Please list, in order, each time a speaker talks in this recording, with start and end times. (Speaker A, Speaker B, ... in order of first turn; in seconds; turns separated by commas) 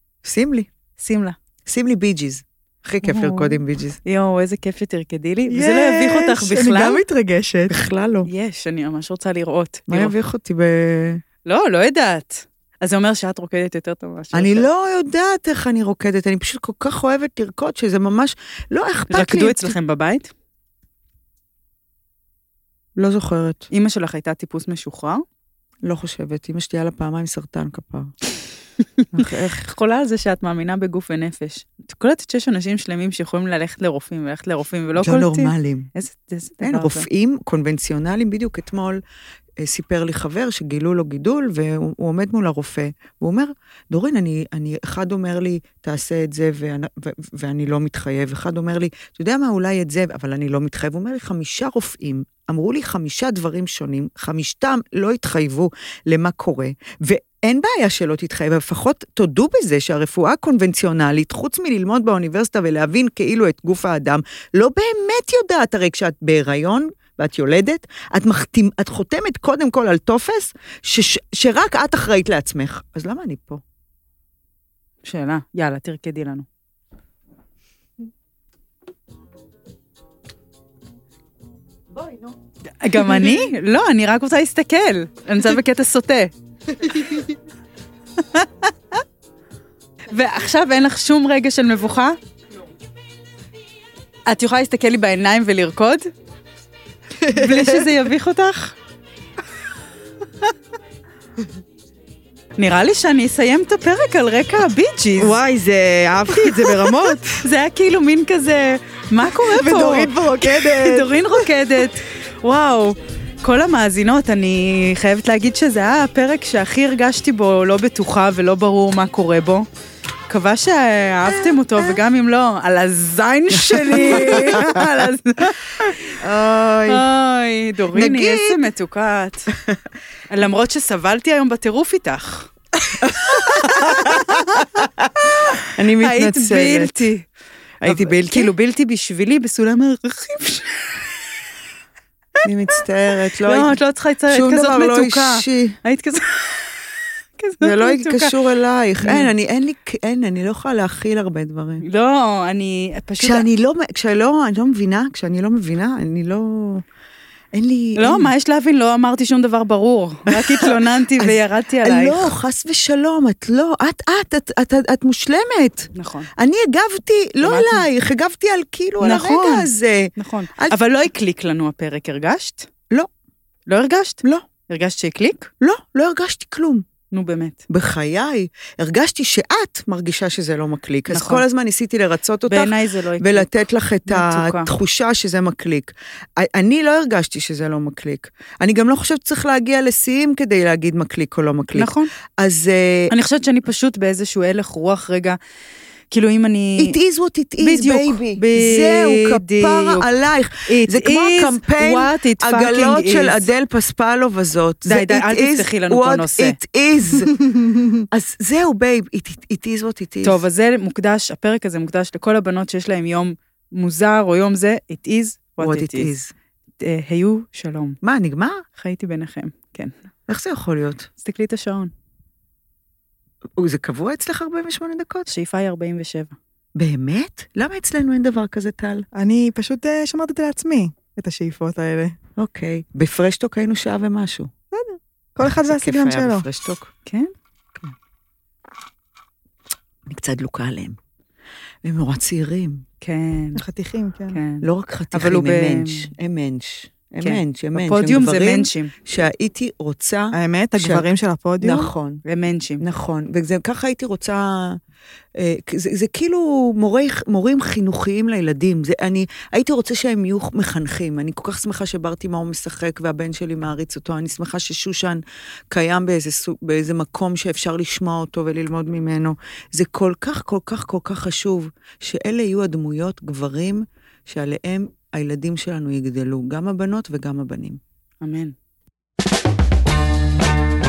Speaker A: 0.2-0.7, Speaker B: 1.0-1.4, Speaker A: 1.6-4.0, Speaker B: 3.0-7.0, Speaker C: 5.5-7.7, Speaker A: 6.4-6.8, Speaker A: 7.7-8.3, Speaker B: 8.2-10.1, Speaker A: 9.9-11.2, Speaker B: 11.4-14.7, Speaker A: 14.3-19.7, Speaker B: 19.1-20.3, Speaker A: 22.9-23.7, Speaker B: 23.7-25.2, Speaker A: 25.8-28.1, Speaker B: 29.0-37.0, Speaker A: 29.1-29.6, Speaker A: 35.0-35.9, Speaker A: 36.6-39.0, Speaker A: 39.6-73.6, Speaker B: 75.0-76.5, Speaker A: 81.9-82.3, Speaker B: 82.8-86.3, Speaker A: 83.0-83.3, Speaker B: 88.3-88.7, Speaker B: 90.1-92.2, Speaker B: 94.2-96.1, Speaker A: 97.2-97.9, Speaker B: 97.3-98.7, Speaker B: 102.6-105.4, Speaker A: 105.2-107.4, Speaker B: 106.3-119.7, Speaker C: 109.6-111.1, Speaker A: 109.7-110.7, Speaker B: 120.3-126.2, Speaker A: 123.5-124.9, Speaker A: 126.2-127.0, Speaker B: 126.9-129.5, Speaker A: 127.9-128.6, Speaker B: 130.3-134.8, Speaker A: 133.0-135.1, Speaker B: 135.4-137.3, Speaker A: 135.6-137.1, Speaker A: 137.8-138.5, Speaker B: 137.8-141.1, Speaker A: 142.4-145.8, Speaker B: 143.4-146.6, Speaker B: 147.4-148.3, Speaker A: 147.6-151.8, Speaker B: 149.0-149.3, Speaker B: 151.8-153.5, Speaker A: 153.2-156.8, Speaker A: 157.5-158.3, Speaker B: 157.9-162.3, Speaker A: 160.3-170.7, Speaker B: 165.9-166.3, Speaker B: 167.4-167.8, Speaker B: 169.0-172.7, Speaker B: 173.7-175.5, Speaker A: 175.6-176.8, Speaker B: 177.1-177.7, Speaker A: 177.7-193.1, Speaker B: 181.1-181.4, Speaker B: 182.5-183.5, Speaker B: 184.0-184.7, Speaker B: 191.7-192.1, Speaker B: 193.1-195.4, Speaker B: 196.1-197.0, Speaker A: 196.8-207.3, Speaker B: 197.6-200.1, Speaker B: 200.7-203.5, Speaker B: 204.8-206.6, Speaker A: 208.1-210.4, Speaker B: 210.2-216.1, Speaker A: 215.6-216.3, Speaker B: 216.8-218.0, Speaker A: 218.0-218.6, Speaker B: 218.7-219.9, Speaker A: 220.3-221.1, Speaker B: 221.2-221.9, Speaker A: 223.6-225.3, Speaker B: 225.3-226.3, Speaker A: 226.7-229.1, Speaker C: 229.1-232.2, Speaker A: 232.4-234.5, Speaker C: 234.7-236.4, Speaker A: 235.4-236.9, Speaker B: 237.1-237.3, Speaker A: 240.1-241.0, Speaker A: 241.8-242.8, Speaker B: 243.0-243.6, Speaker C: 243.6-244.4, Speaker B: 244.3-246.1, Speaker A: 244.6-251.1, Speaker B: 247.2-248.9, Speaker C: 250.3-251.9, Speaker A: 251.6-252.2, Speaker B: 252.2-252.8, Speaker A: 252.8-254.8, Speaker A: 255.3-277.8, Speaker B: 278.2-278.5